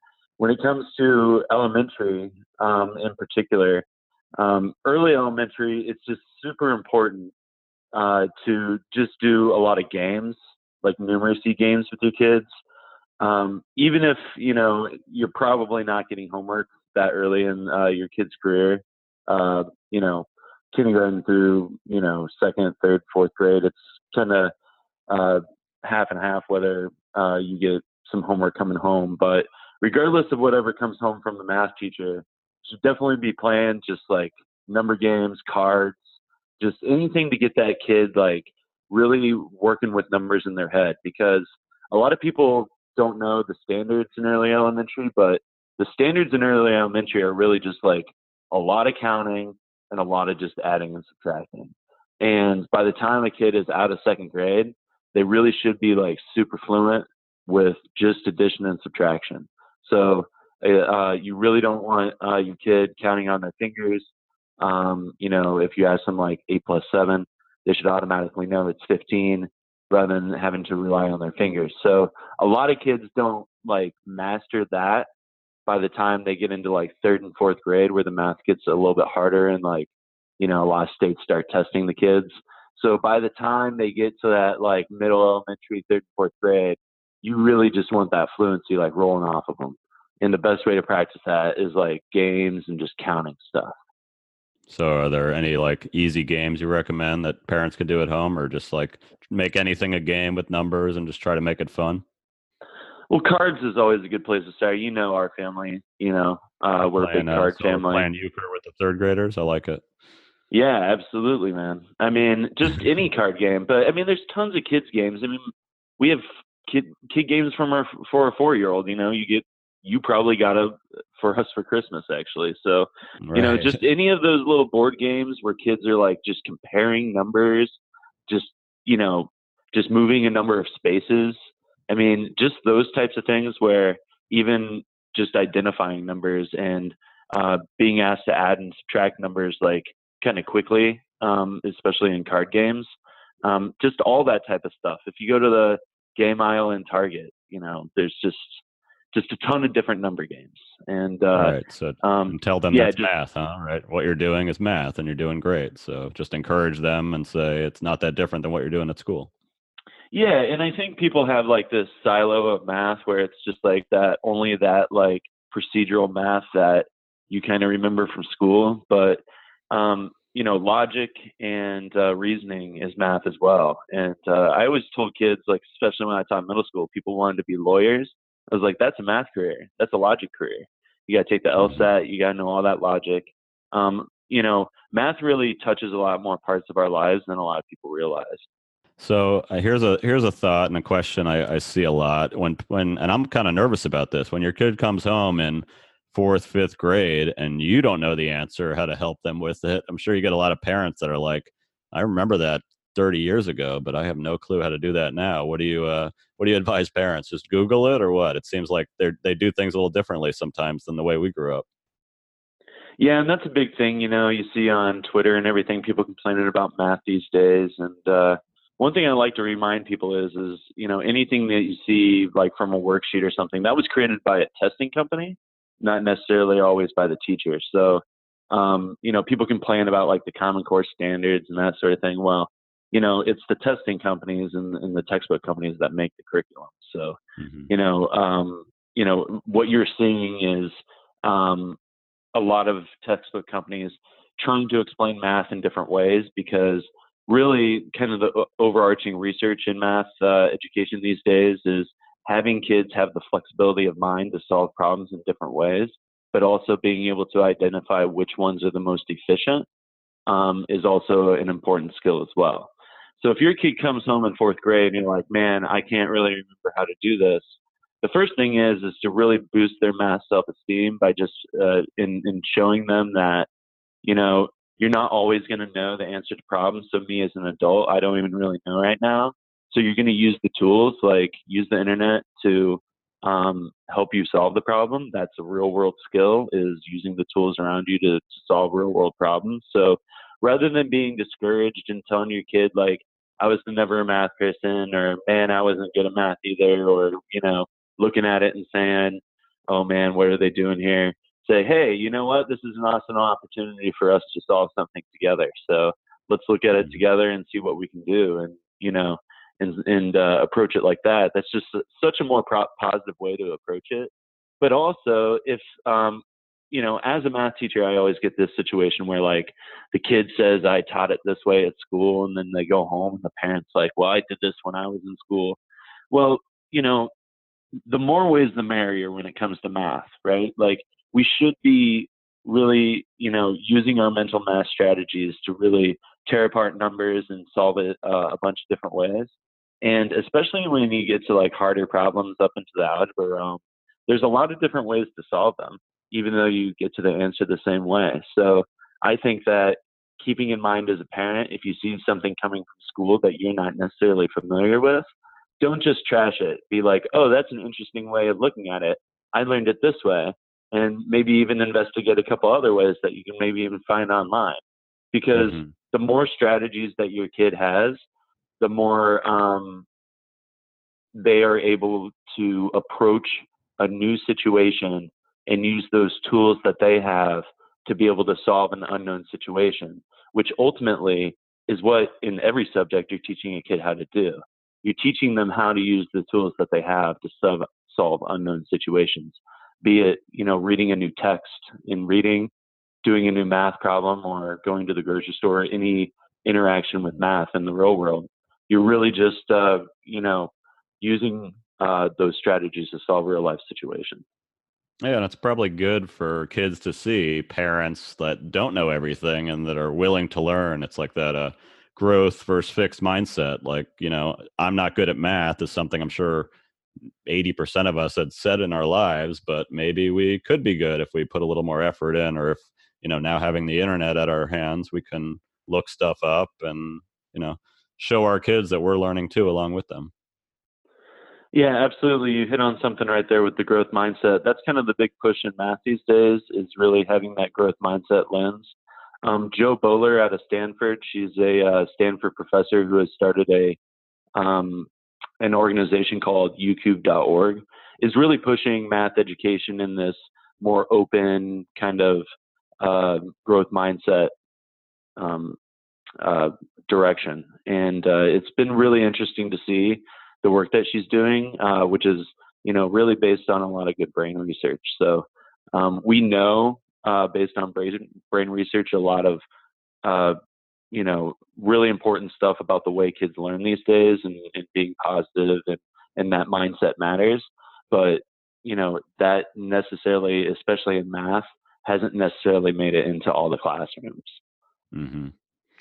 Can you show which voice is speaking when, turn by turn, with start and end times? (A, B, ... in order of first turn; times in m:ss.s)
0:00.4-0:03.8 A
0:04.4-0:07.3 A
0:07.9-0:12.5 A
0:13.2-0:24.5 A
0:25.1-0:36.0 A
0:36.6-1:15.1 A
1:15.7-1:19.9 A
1:20.4-1:33.7 A
1:34.7-1:42.0 B
1:43.1-1:48.1 A
1:47.0-1:49.8 B
1:50.5-1:55.4 A
1:56.0-2:11.4 A
2:03.2-2:03.8 B
2:11.9-2:22.9 A
2:23.4-2:28.6 A
2:29.1-2:33.1 A
2:31.4-2:39.3 B
2:40.1-3:08.4 A
3:01.6-3:01.9 B
3:09.0-3:31.6 B
3:33.0-3:57.2 A
3:57.4-3:57.7 B
3:57.7-4:01.8 A
4:02.3-4:19.6 A
4:20.3-4:33.5 A
4:34.0-5:14.1 A
5:14.6-5:25.6 A
5:26.1-5:27.1 A
5:27.9-5:55.1 A
5:55.6-6:04.6 A
6:05.1-6:08.0 A
6:05.4-6:05.8 B
6:08.6-6:09.9 A
6:11.1-6:32.5 A
6:33.0-6:44.2 A
6:45.0-6:56.5 B
6:57.2-7:10.1 B
7:11.5-7:23.8 A
7:24.4-7:24.9 A
7:25.4-7:32.2 A
7:32.8-7:34.3 A
7:35.2-7:35.6 A
7:36.2-7:49.4 A
7:50.0-7:50.4 A
7:50.9-8:04.4 A
8:04.9-8:05.3 B